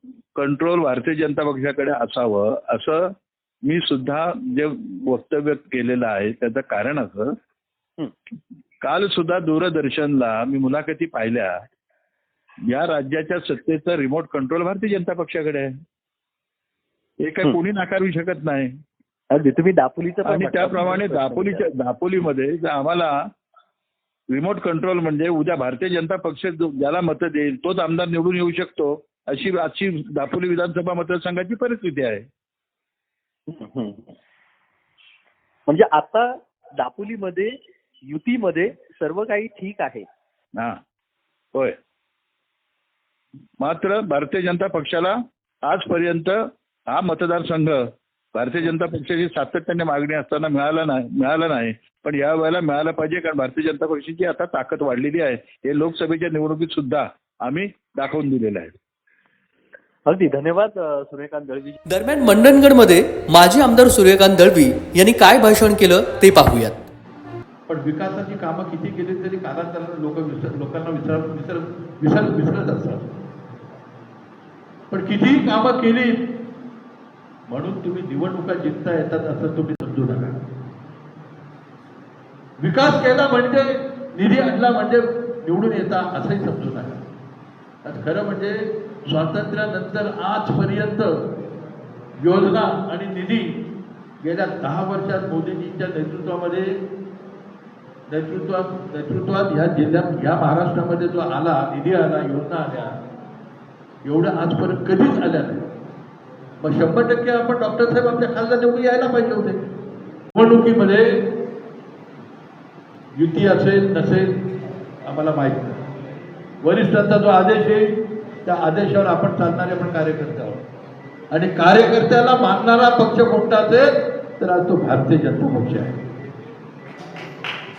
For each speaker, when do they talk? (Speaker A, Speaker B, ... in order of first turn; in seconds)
Speaker A: 0.3-7.3, 8.8-11.6, 12.7-15.8, 17.2-18.8, 20.2-23.1, 24.3-32.2, 43.6-58.7
Speaker B: 19.3-21.6, 33.5-34.1, 35.7-37.5, 38.1-40.1, 60.0-61.8
Speaker C: 61.9-66.8
Speaker D: 67.7-73.1, 74.9-76.2, 77.5-80.4, 82.6-87.0, 87.8-91.1, 92.2-93.5, 94.2-96.7, 98.1-102.9, 104.0-105.7, 106.6-109.6, 110.3-111.0, 113.2-114.3, 115.0-115.8, 116.6-117.9, 118.4-120.6, 121.3-126.0